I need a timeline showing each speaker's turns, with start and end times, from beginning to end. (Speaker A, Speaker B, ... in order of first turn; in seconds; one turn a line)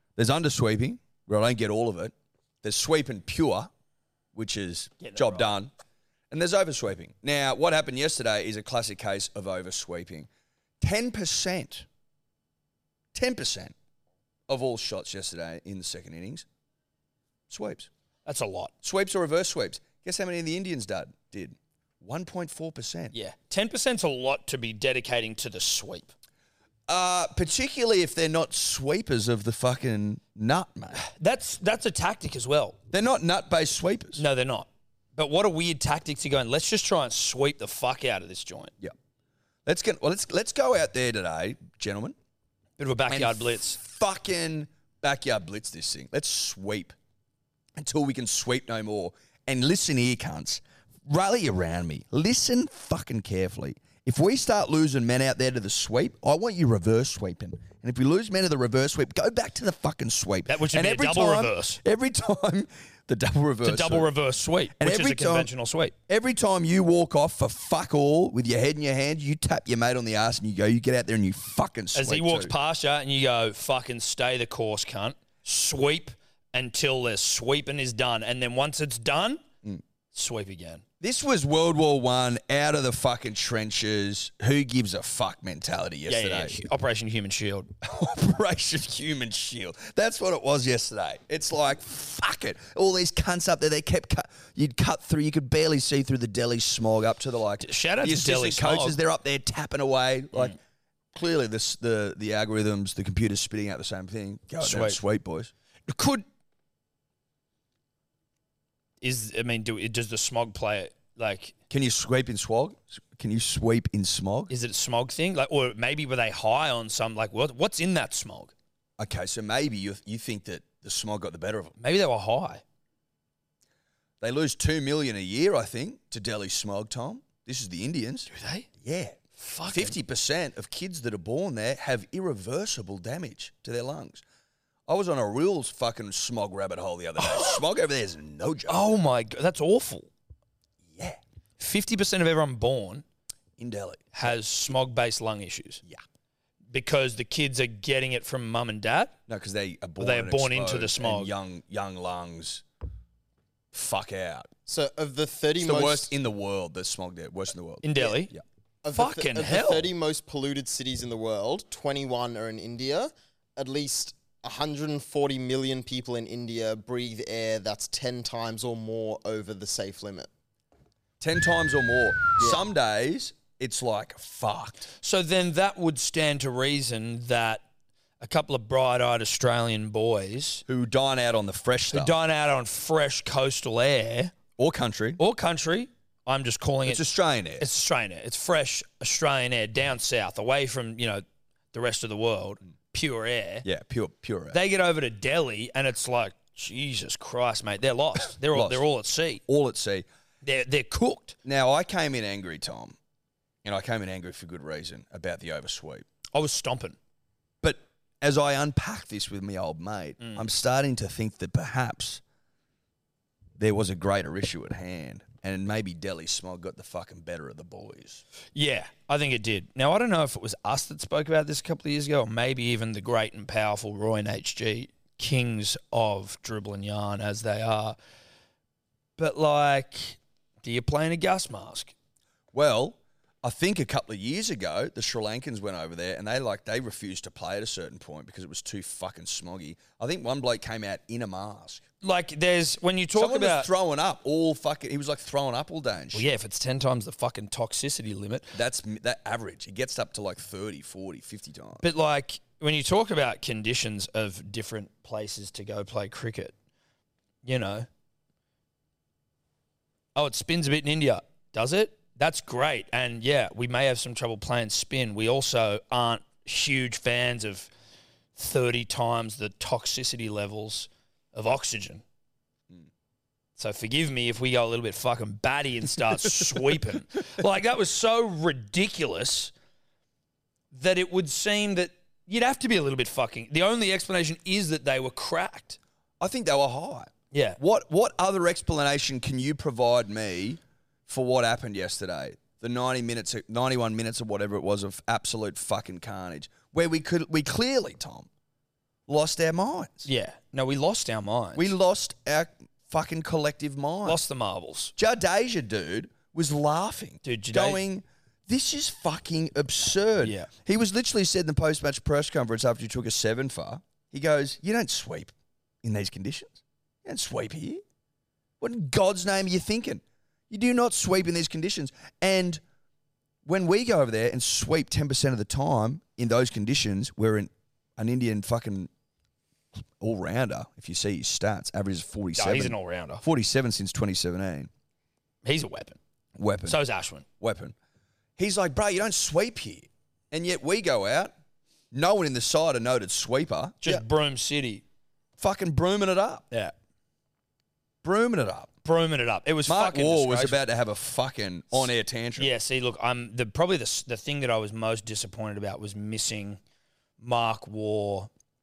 Speaker A: 0.2-3.7
Speaker A: 4.3-5.7
Speaker B: 5.0-5.5
Speaker A: 6.3-10.3
Speaker A: 10.8-11.9
Speaker A: 13.1-13.7
Speaker A: 14.5-16.5
Speaker A: 17.5-17.9
Speaker B: 18.2-18.7
Speaker A: 18.8-23.1
Speaker B: 23.1-26.1
Speaker A: 26.9-31.1
Speaker B: 31.0-32.8
Speaker A: 32.9-34.2
Speaker B: 34.2-38.7
Speaker A: 39.7-42.1
Speaker B: 42.8-43.8
Speaker A: 43.1-47.0
Speaker A: 47.8-64.1
Speaker B: 60.5-61.8
Speaker B: 63.6-66.0
Speaker A: 64.8-65.5
Speaker A: 66.1-72.5
Speaker B: 72.0-79.4
Speaker B: 80.1-80.8
Speaker A: 81.0-86.5
Speaker B: 86.1-87.7
Speaker A: 87.8-100.6
Speaker B: 97.6-99.0
Speaker A: 101.1-105.5
Speaker B: 104.6-105.0
Speaker B: 105.9-106.2
Speaker B: 109.0-111.6
Speaker A: 111.7-114.5
Speaker B: 114.5-118.5
Speaker A: 119.0-121.7
Speaker B: 121.8-122.6
Speaker A: 124.2-128.3
Speaker B: 128.3-128.7
Speaker A: 128.8-129.2
Speaker B: 129.4-130.0
Speaker A: 129.7-134.2
Speaker A: 134.9-138.8
Speaker B: 137.2-137.6
Speaker B: 138.7-140.1
Speaker A: 140.9-141.2
Speaker B: 141.6-143.0
Speaker A: 143.6-144.3
Speaker B: 144.1-145.8
Speaker B: 146.7-149.2
Speaker A: 149.3-152.6
Speaker B: 150.0-151.3
Speaker A: 153.7-154.5
Speaker C: 154.7-156.1
Speaker A: 155.6-158.4
Speaker B: 157.8-158.3
Speaker C: 158.8-170.3
Speaker B: 158.9-159.9
Speaker A: 171.2-174.9
Speaker B: 175.0-177.6
Speaker B: 178.2-180.6
Speaker A: 180.7-182.1
Speaker B: 181.9-184.3
Speaker A: 184.6-185.2
Speaker B: 185.2-187.1
Speaker A: 186.9-187.7
Speaker B: 187.6-193.7
Speaker A: 193.6-194.6
Speaker B: 194.5-199.4
Speaker A: 198.5-198.8
Speaker A: 199.5-200.1
Speaker B: 200.4-201.4
Speaker A: 201.4-203.0
Speaker A: 203.6-206.1
Speaker B: 206.3-207.0
Speaker A: 207.6-212.2
Speaker B: 210.2-210.5
Speaker A: 213.6-218.2
Speaker B: 218.6-228.0
Speaker B: 229.2-231.9
Speaker A: 232.5-241.8
Speaker B: 242.0-243.7
Speaker A: 243.2-246.3
Speaker B: 246.1-248.6
Speaker A: 248.5-251.8
Speaker B: 251.8-256.5
Speaker B: 257.4-257.9
Speaker B: 260.2-267.7
Speaker B: 268.4-272.0
Speaker B: 273.6-279.5
Speaker B: 280.7-285.8
Speaker A: 286.2-298.3
Speaker B: 287.3-287.6
Speaker A: 299.1-300.1
Speaker B: 300.1-301.7
Speaker A: 301.6-304.2
Speaker B: 304.1-304.9
Speaker A: 305.0-315.3
Speaker B: 307.2-307.8
Speaker B: 310.2-310.5
Speaker A: 315.8-317.8
Speaker A: 318.6-322.6
Speaker A: 323.5-328.9
Speaker A: 330.0-334.7
Speaker B: 332.4-333.2
Speaker B: 335.4-336.0
Speaker A: 336.4-336.8
Speaker B: 336.7-337.3
Speaker A: 337.4-337.8
Speaker A: 338.4-341.3
Speaker A: 341.9-344.0
Speaker B: 343.8-344.8
Speaker A: 345.4-346.4
Speaker A: 348.0-348.7
Speaker B: 348.8-350.6
Speaker A: 349.7-352.5
Speaker B: 351.7-356.6
Speaker B: 357.2-358.3